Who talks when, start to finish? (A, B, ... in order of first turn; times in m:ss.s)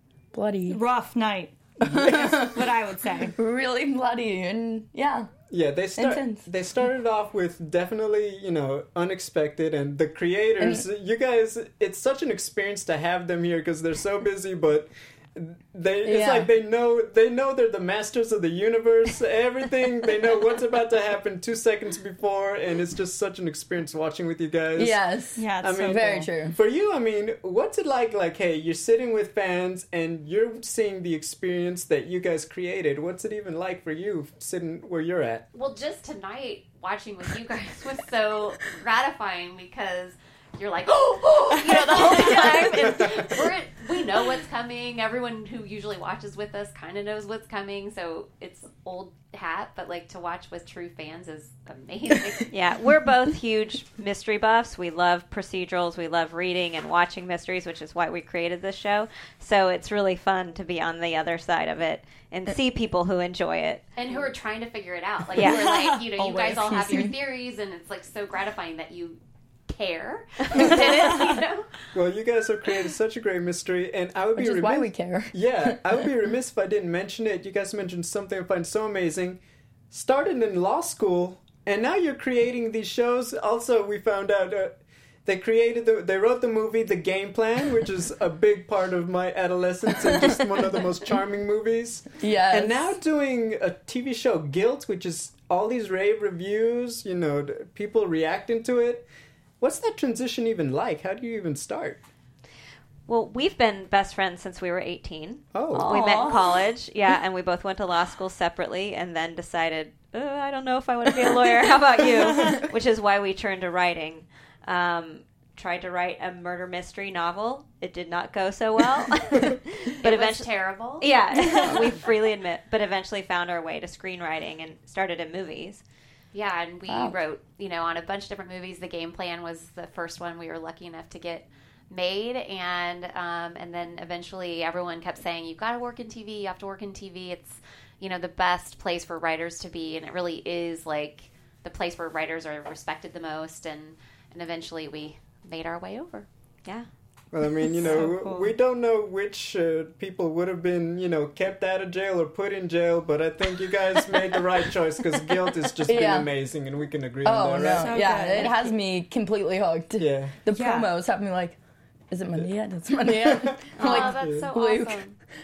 0:00.3-0:00.8 A
0:00.7-0:03.3 B
0:01.8-0:02.1 C
0:01.9-0:02.5 A
0:03.4-0:05.3 A
0:05.5-0:25.0 C
0:06.0-0:06.5 A
0:10.6-0:10.8 A
0:16.0-0:16.5 A
0:24.8-0:26.6 A
0:25.4-0:26.1 B
0:25.6-0:35.5 C
0:35.5-0:52.6 D
0:40.9-0:43.4 A
0:41.9-0:42.6 B
0:52.5-1:04.3 E
1:04.0-1:11.7 D
1:05.3-1:05.8 E
1:05.4-1:07.1 B
1:06.6-1:07.1 A
1:10.6-1:11.3 E
1:11.9-1:19.4 C
1:14.4-1:15.9 A
1:19.9-1:39.1 C
1:30.0-1:30.6 A
1:32.2-1:32.9 A
1:39.6-1:42.0 C
1:43.1-2:05.8 E
1:45.5-1:46.2 C
1:45.8-1:46.6 A
1:52.2-1:52.6 B
2:00.0-2:01.9 D
2:01.3-2:01.8 B
2:06.3-2:26.3 D
2:06.9-2:07.2 A
2:27.3-2:38.0 C
2:27.8-2:28.5 B
2:35.8-2:36.3 A
2:37.2-2:41.6 A
2:37.8-2:38.7 B
2:40.0-2:40.4 C
2:40.5-2:40.9 B
2:42.1-2:45.0 A
2:43.2-2:44.5 C
2:43.8-2:45.2 D
2:43.8-2:44.1 E